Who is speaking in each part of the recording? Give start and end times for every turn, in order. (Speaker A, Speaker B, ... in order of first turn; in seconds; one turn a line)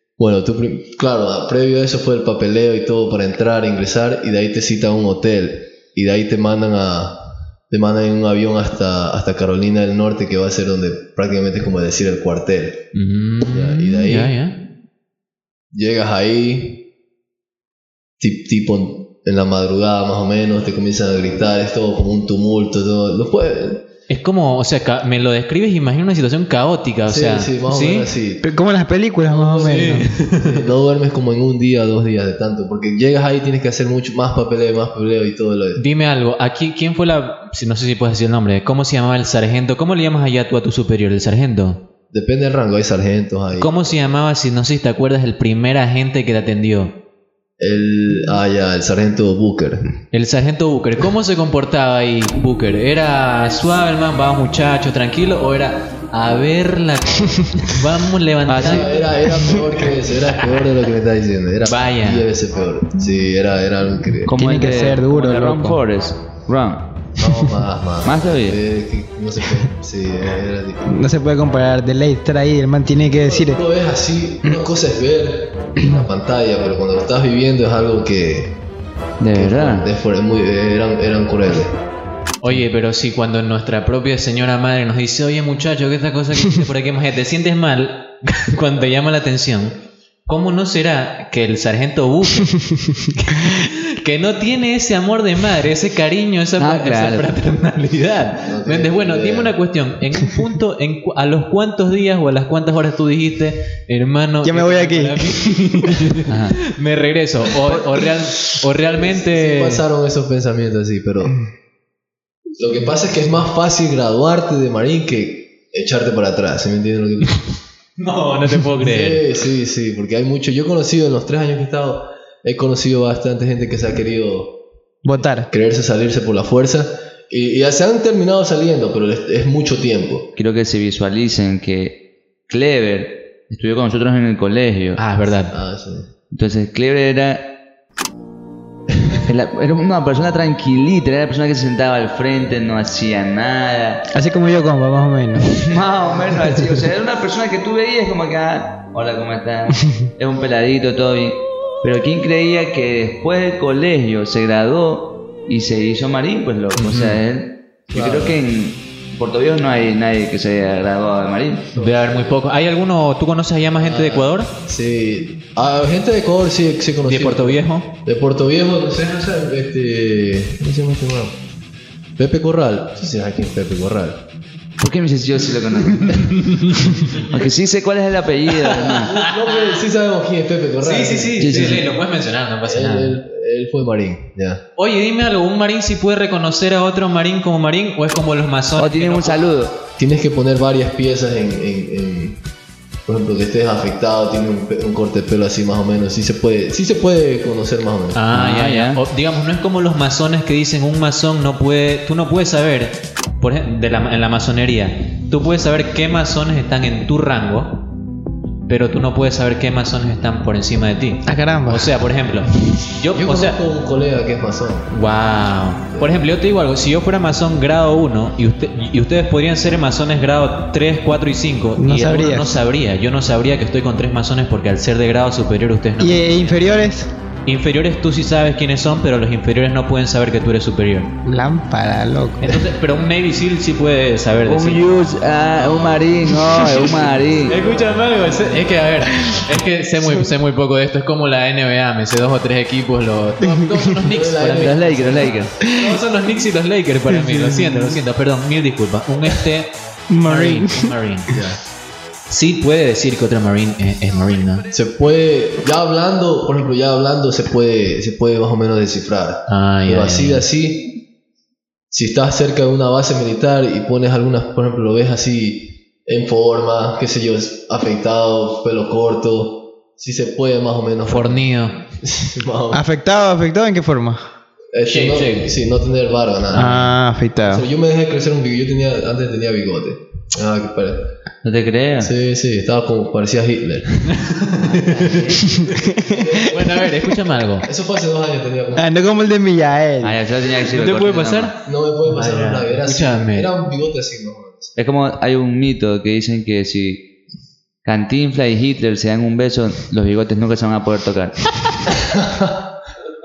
Speaker A: 0.2-7.2
Speaker A: 7.7-12.8
Speaker B: 12.9-14.6
Speaker A: 13.5-14.3
Speaker A: 15.7-16.9
Speaker A: 18.2-23.8
Speaker B: 24.1-28.1
Speaker A: 27.1-28.4
Speaker C: 28.4-30.1
Speaker A: 29.3-35.8
Speaker B: 29.6-30.5
Speaker B: 35.8-41.8
Speaker A: 42.1-44.1
Speaker B: 43.5-46.9
Speaker A: 47.6-49.9
Speaker B: 50.1-58.9
Speaker D: 58.5-58.9
Speaker A: 58.6-64.3
Speaker B: 61.7-62.3
Speaker D: 64.3-66.9
Speaker C: 64.3-65.8
Speaker A: 67.2-70.9
Speaker D: 68.0-68.6
Speaker C: 70.9-73.6
Speaker A: 73.0-78.6
Speaker D: 79.2-79.9
Speaker A: 79.3-81.7
Speaker B: 82.4-109.8
Speaker D: 96.6-97.3
Speaker A: 98.5-99.6
Speaker C: 104.4-106.0
Speaker D: 106.3-106.5
Speaker A: 108.8-111.4
Speaker A: 112.6-117.4
Speaker B: 118.0-119.2
Speaker A: 118.8-124.6
Speaker C: 125.0-125.5
Speaker A: 125.5-130.3
Speaker D: 130.4-135.0
Speaker B: 135.0-135.5
Speaker A: 135.5-136.1
Speaker D: 136.3-137.4
Speaker D: 139.3-144.0
Speaker C: 144.1-145.5
Speaker D: 145.5-161.7
Speaker B: 156.8-157.2
Speaker A: 157.9-158.4
Speaker A: 161.7-162.4
Speaker B: 161.8-164.5
Speaker A: 163.8-171.4
Speaker B: 167.1-167.9
Speaker A: 172.2-174.2
Speaker D: 174.8-176.4
Speaker B: 176.4-177.2
Speaker D: 177.3-179.1
Speaker A: 178.7-181.8
Speaker B: 179.2-179.8
Speaker B: 180.8-183.2
Speaker D: 181.4-181.9
Speaker A: 182.7-184.6
Speaker B: 184.8-189.4
Speaker D: 188.8-189.8
Speaker A: 190.0-192.4
Speaker A: 193.1-198.2
Speaker B: 198.1-207.8
Speaker D: 198.3-199.0
Speaker B: 208.7-213.6
Speaker C: 211.3-211.9
Speaker A: 213.1-214.9
Speaker B: 214.9-226.7
Speaker A: 215.9-216.3
Speaker C: 221.8-222.6
Speaker C: 226.0-227.1
Speaker B: 227.5-231.1
Speaker C: 231.3-232.6
Speaker B: 232.4-234.8
Speaker D: 234.4-237.6
Speaker B: 235.6-236.0
Speaker B: 237.5-249.7
Speaker A: 243.9-246.0
Speaker D: 244.6-245.5
Speaker C: 247.1-248.0
Speaker C: 250.1-250.9
Speaker B: 250.2-251.3
Speaker A: 251.3-251.6
Speaker B: 252.3-254.7
Speaker A: 254.7-261.0
Speaker B: 259.5-260.4
Speaker A: 261.9-271.5
Speaker B: 271.1-271.8
Speaker A: 272.0-272.8
Speaker C: 272.7-274.2
Speaker A: 274.7-276.9
Speaker B: 274.9-275.5
Speaker C: 276.5-277.7
Speaker A: 277.5-281.0
Speaker D: 281.4-282.1
Speaker A: 282.0-284.1
Speaker B: 284.2-285.1
Speaker D: 284.5-285.6
Speaker C: 285.4-286.3
Speaker A: 286.0-286.9
Speaker B: 286.5-287.7
Speaker A: 287.7-288.9
Speaker C: 288.7-290.2
Speaker D: 290.0-291.6
Speaker B: 290.7-291.6
Speaker A: 291.6-294.8
Speaker B: 292.1-293.5
Speaker D: 294.8-297.0
Speaker D: 297.9-301.5
Speaker A: 302.1-302.6